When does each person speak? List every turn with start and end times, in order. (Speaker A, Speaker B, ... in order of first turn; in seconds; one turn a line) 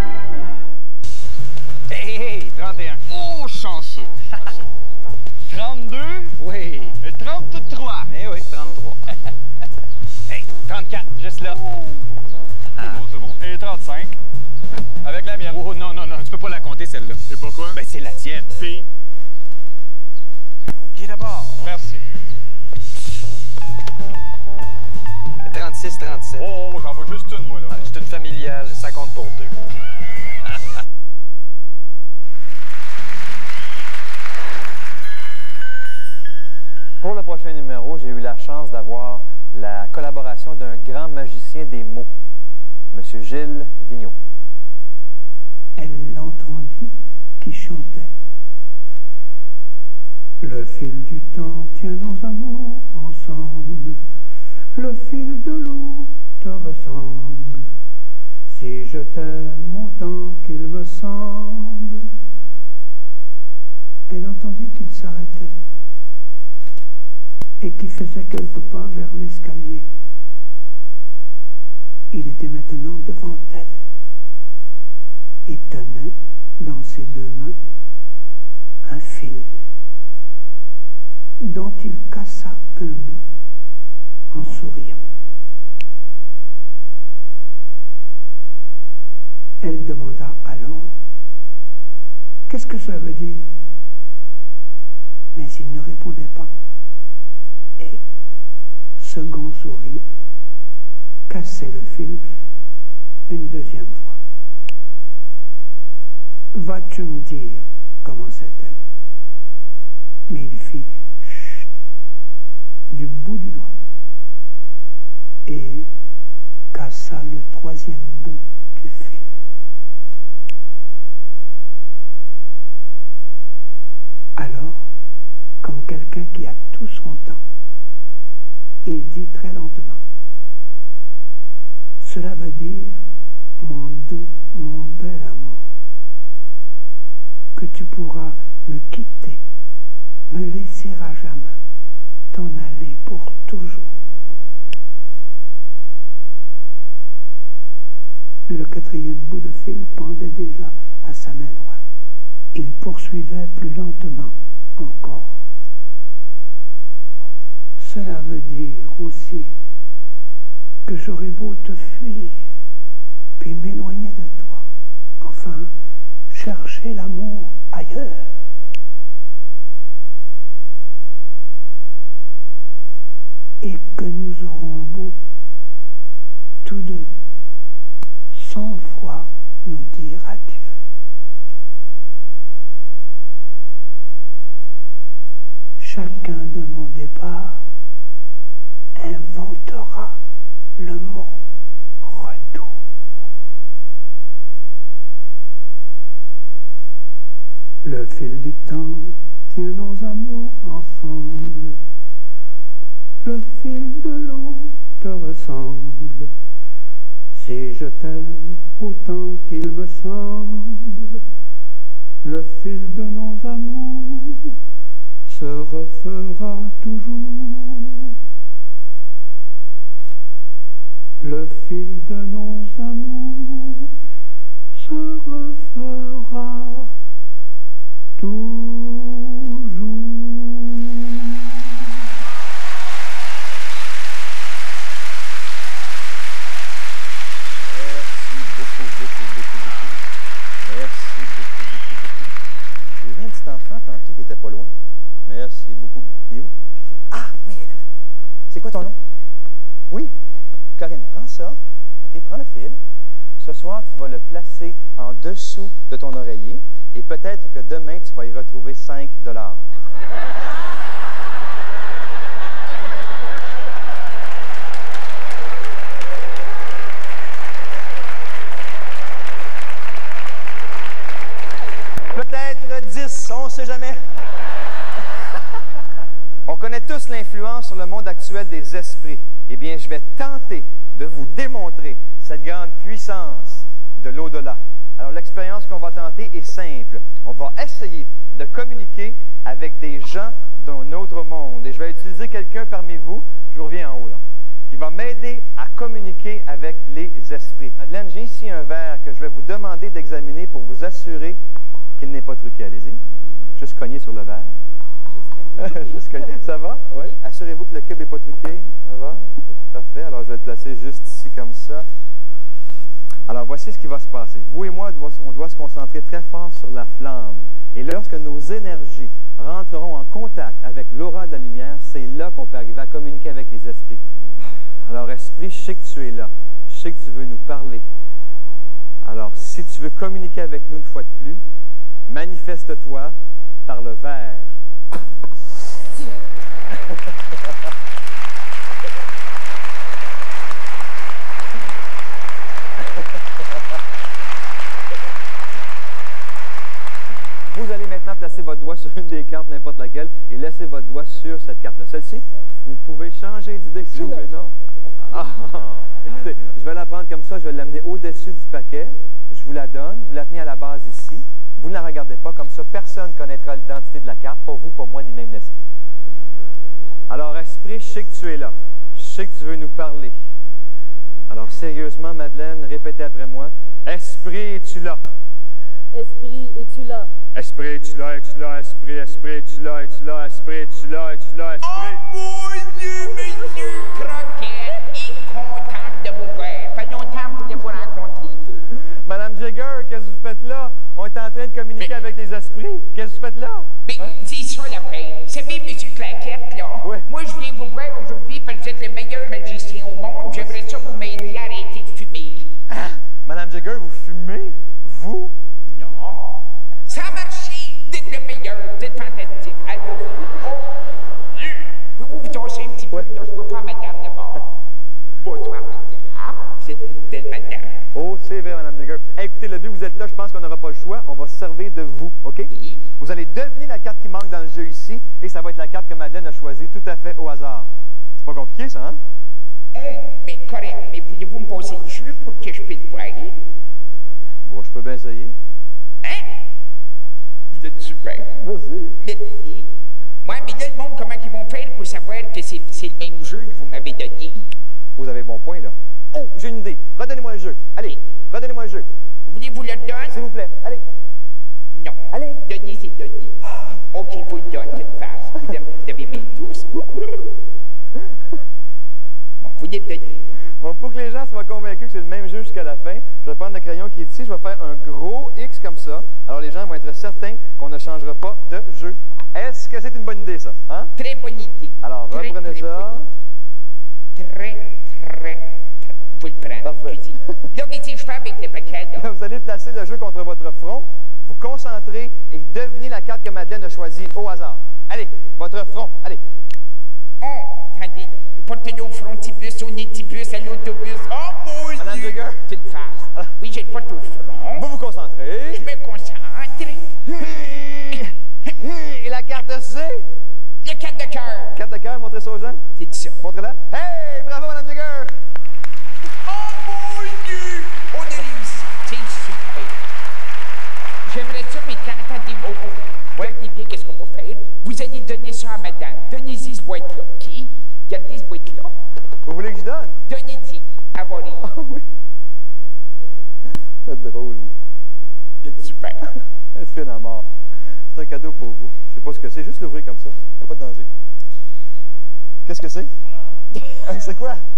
Speaker A: 3.1-4.1
Speaker A: 5.5-6.3
Speaker A: 7.0-8.1
Speaker A: 10.7-11.6
Speaker A: 12.8-14.2
Speaker A: 15.0-15.7
Speaker B: 15.5-17.2
Speaker A: 17.3-17.8
Speaker A: 21.6-22.0
Speaker B: 25.5-26.5
Speaker A: 26.4-27.9
Speaker B: 28.2-29.5
Speaker C: 37.0-42.1
Speaker C: 42.9-44.1
Speaker D: 45.8-48.1
Speaker D: 50.4-54.0
Speaker D: 54.8-57.7
Speaker D: 58.5-62.1
Speaker D: 64.1-65.5
Speaker D: 67.6-69.9
Speaker D: 72.1-73.8
Speaker D: 75.5-77.6
Speaker D: 78.8-79.5
Speaker D: 81.4-83.2
Speaker D: 84.3-85.0
Speaker D: 89.6-90.9
Speaker D: 92.5-93.5
Speaker D: 95.3-96.5
Speaker D: 99.0-100.1
Speaker D: 101.3-102.3
Speaker D: 103.3-104.2
Speaker D: 106.5-108.8
Speaker D: 110.3-111.7
Speaker D: 112.9-113.7
Speaker D: 115.5-115.9
Speaker D: 116.7-119.4
Speaker D: 124.4-124.8
Speaker D: 125.6-127.4
Speaker D: 128.8-130.0
Speaker D: 132.0-133.0
Speaker D: 133.6-135.6
Speaker D: 137.6-139.4
Speaker D: 140.3-141.6
Speaker D: 142.3-143.9
Speaker D: 148.5-151.8
Speaker D: 152.5-155.4
Speaker D: 157.8-159.6
Speaker D: 160.9-162.5
Speaker D: 163.4-164.7
Speaker D: 165.2-165.7
Speaker D: 166.3-168.4
Speaker D: 173.6-175.2
Speaker D: 176.6-177.1
Speaker D: 178.3-180.8
Speaker D: 185.8-187.6
Speaker D: 189.0-190.2
Speaker D: 190.8-191.4
Speaker D: 192.0-192.7
Speaker D: 197.8-201.8
Speaker D: 203.2-206.3
Speaker D: 207.3-211.2
Speaker D: 212.2-214.6
Speaker D: 215.3-218.2
Speaker D: 221.2-223.9
Speaker D: 224.7-226.9
Speaker D: 228.2-231.8
Speaker C: 237.7-239.8
Speaker C: 240.6-242.3
Speaker C: 243.0-244.7
Speaker C: 245.3-246.5
Speaker C: 247.1-247.6
Speaker C: 248.5-249.0
Speaker C: 250.8-252.8
Speaker C: 253.4-259.6
Speaker C: 272.1-274.0
Speaker C: 276.5-301.4
Speaker C: 302.0-303.0
Speaker C: 303.6-304.5
Speaker E: 305.2-306.4
Speaker C: 305.6-311.9
Speaker C: 313.3-324.1
Speaker C: 324.9-327.8
Speaker C: 329.0-331.4
Speaker C: 332.1-333.1
Speaker C: 333.7-334.6
Speaker C: 347.5-354.5
Speaker E: 354.0-354.3
Speaker C: 355.1-365.7
Speaker C: 367.1-370.1
Speaker C: 371.3-375.0
Speaker E: 375.9-377.1
Speaker C: 377.4-382.0
Speaker F: 381.6-388.6
Speaker C: 389.1-394.1
Speaker F: 391.8-392.1
Speaker F: 393.9-402.5
Speaker C: 396.8-397.1
Speaker C: 400.2-400.6
Speaker C: 402.7-405.3
Speaker F: 405.7-410.9
Speaker F: 411.4-414.4
Speaker F: 415.2-417.8
Speaker C: 417.9-429.0
Speaker F: 422.5-422.8
Speaker F: 429.7-433.4
Speaker C: 434.5-435.4
Speaker F: 436.0-436.4
Speaker F: 437.5-438.3
Speaker C: 438.4-439.0
Speaker F: 439.0-439.7
Speaker F: 440.2-444.5
Speaker C: 445.0-448.9
Speaker F: 449.3-450.2
Speaker C: 450.1-450.8
Speaker F: 451.7-453.4
Speaker C: 452.1-452.4
Speaker F: 453.9-456.7
Speaker F: 459.4-460.3
Speaker C: 460.6-470.9
Speaker F: 471.0-473.1
Speaker C: 471.8-473.1
Speaker F: 474.1-479.1
Speaker C: 476.6-477.2
Speaker C: 479.0-486.2
Speaker F: 487.2-494.6
Speaker C: 491.8-492.4
Speaker C: 494.5-495.6
Speaker F: 495.5-497.4
Speaker C: 497.1-500.1
Speaker F: 500.6-501.5
Speaker C: 501.5-502.6
Speaker F: 502.8-503.2
Speaker C: 503.2-505.1
Speaker F: 506.3-509.8
Speaker F: 511.1-518.7
Speaker C: 519.3-520.0
Speaker F: 520.1-521.5
Speaker C: 521.4-521.9
Speaker C: 523.9-524.5
Speaker F: 525.4-526.0
Speaker C: 526.5-527.3
Speaker C: 527.9-530.9
Speaker C: 532.5-532.9
Speaker C: 533.7-534.4